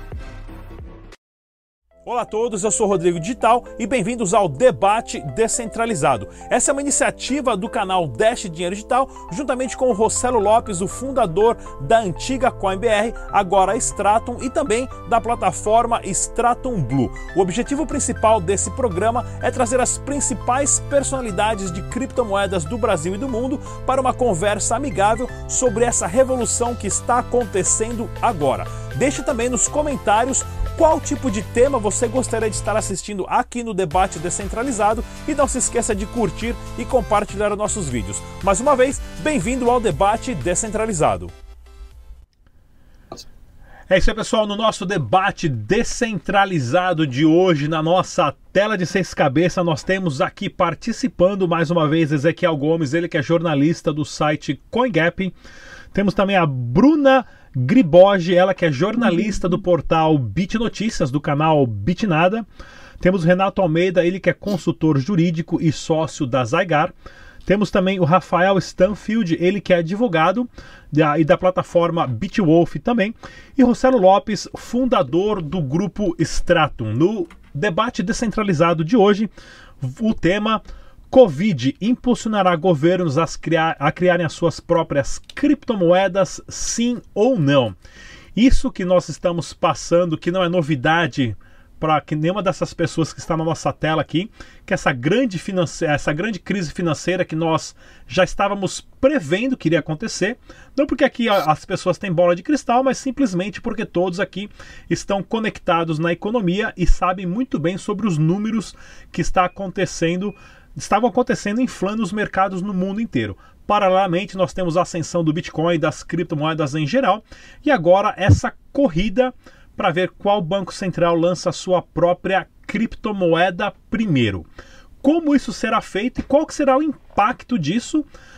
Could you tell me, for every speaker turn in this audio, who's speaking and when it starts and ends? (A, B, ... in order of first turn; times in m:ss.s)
0:02.0-0:41.3 A
0:43.9-0:55.3 A
0:55.9-1:02.4 A
1:03.0-1:06.9 A
1:07.4-1:19.3 A
1:19.8-1:27.8 A
1:28.3-2:04.5 A
2:05.0-2:08.0 A